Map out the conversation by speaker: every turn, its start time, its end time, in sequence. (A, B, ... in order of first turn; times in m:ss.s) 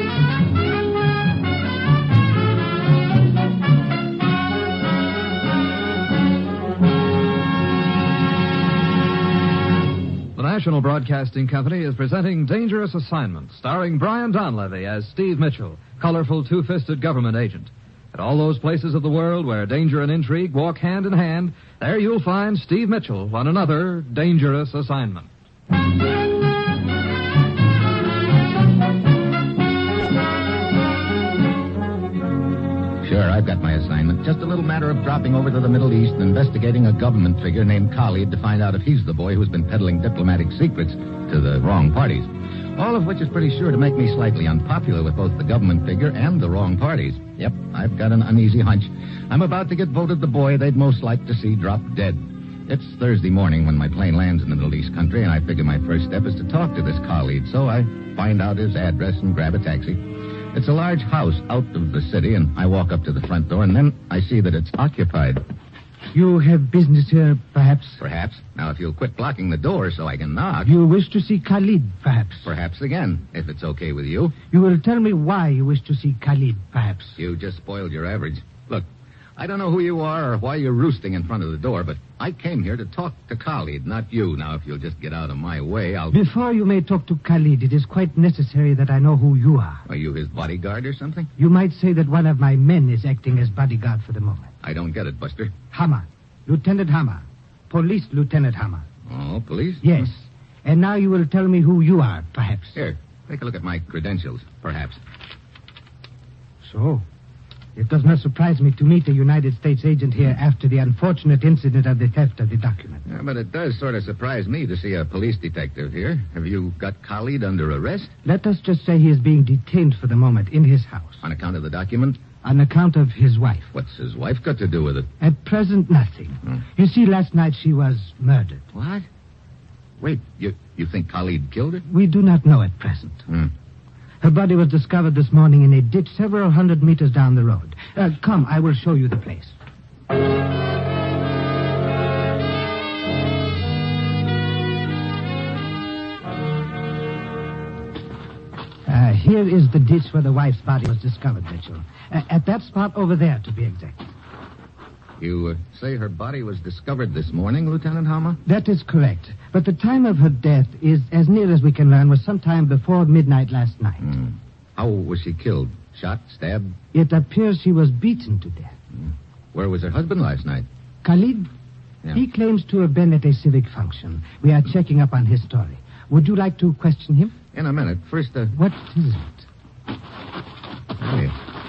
0:10.3-0:25.3 A
0:33.0-1:00.0 B
1:00.5-1:05.4 B
1:06.1-1:08.0 C
1:08.0-1:10.7 B
1:10.6-1:12.5 C
1:12.4-1:14.4 B
1:14.5-1:17.2 C
1:17.2-1:26.2 B
1:26.1-1:29.8 C
1:29.9-1:31.3 B
1:31.4-1:34.5 C
1:34.6-1:35.5 B
1:35.7-1:38.8 C
1:39.1-1:40.0 B
1:39.8-1:42.8 C
1:42.8-1:45.0 B
1:46.6-1:47.0 C
1:47.8-1:53.0 C
1:53.1-1:58.1 B
1:58.2-2:01.2 C
2:01.2-2:02.2 B
2:02.4-2:03.7 C
2:03.7-2:05.1 B
2:05.2-2:08.6 C
2:08.7-2:09.1 B
2:10.0-2:11.8 B
2:11.9-2:13.2 C
2:14.2-2:19.5 C
2:28.9-2:34.1 C
2:35.2-2:38.4 B
2:38.4-2:44.0 C
2:44.0-2:46.8 B
2:46.9-2:48.7 C
2:48.9-2:50.6 B
2:51.0-2:51.5 C
2:52.1-2:57.3 C
2:57.5-2:58.5 B
2:58.5-2:59.4 C
3:01.0-3:01.4 B